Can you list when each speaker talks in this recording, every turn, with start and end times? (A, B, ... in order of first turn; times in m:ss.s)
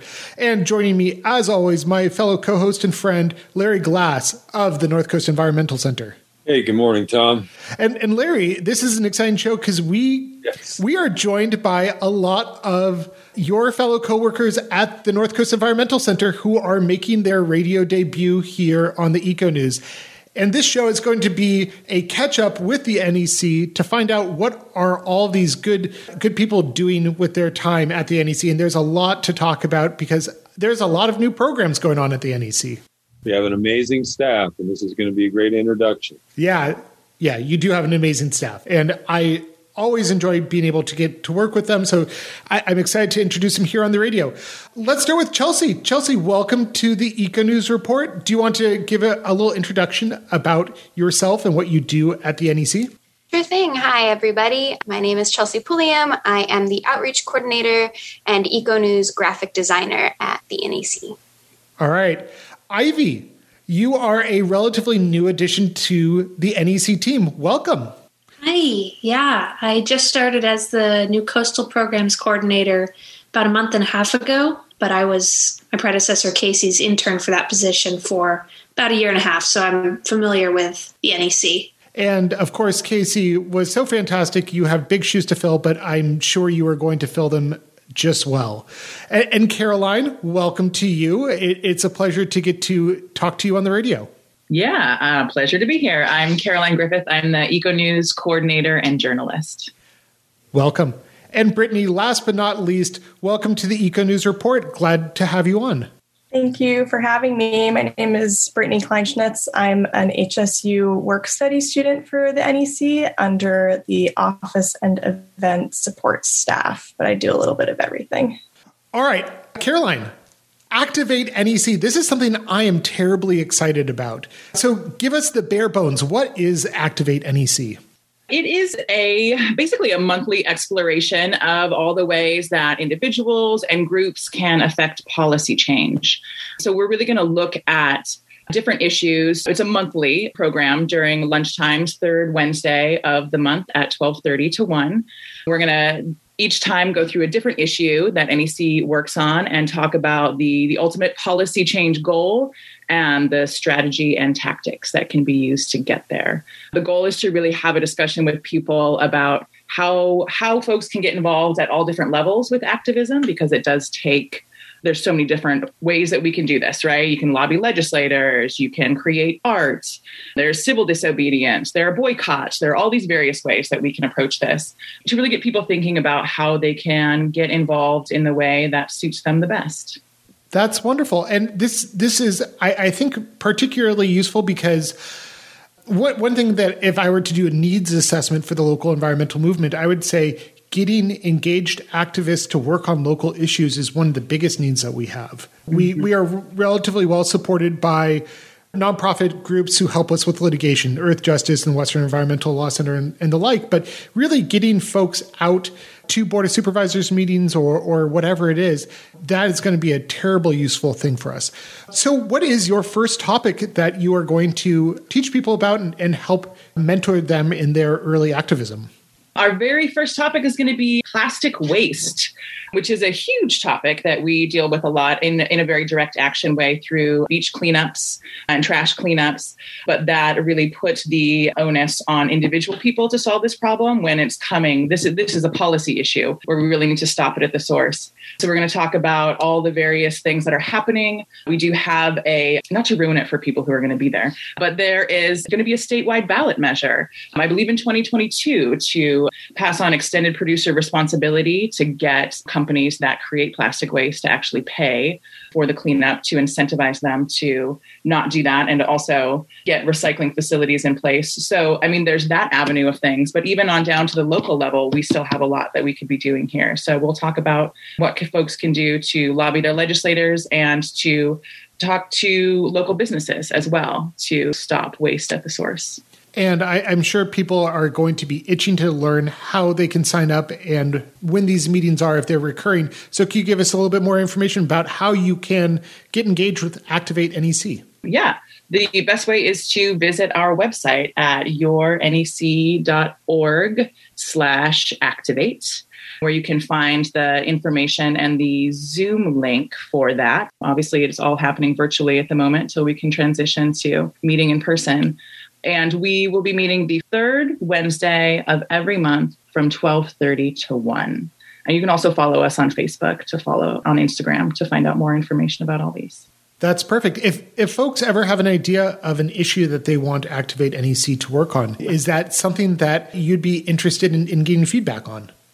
0:00.4-0:06.2 A
0:06.5-0:07.5 B
0:07.8-0:19.8 A
0:20.4-0:32.8 A
0:33.2-0:36.2 B
0:36.4-0:52.9 A
0:53.3-1:01.2 C
1:01.8-1:07.9 A
1:08.4-1:21.7 D
1:22.0-1:34.1 A
1:34.5-1:39.7 E
1:40.5-1:45.9 A
1:46.3-1:58.4 F
1:58.9-2:00.1 A
2:00.7-2:07.8 A
2:08.3-3:00.0 E
3:00.5-3:05.0 A
3:05.9-3:38.9 A
3:39.4-4:36.0 E
4:36.4-4:47.8 A
4:48.0-5:16.2 E
5:16.6-5:25.3 A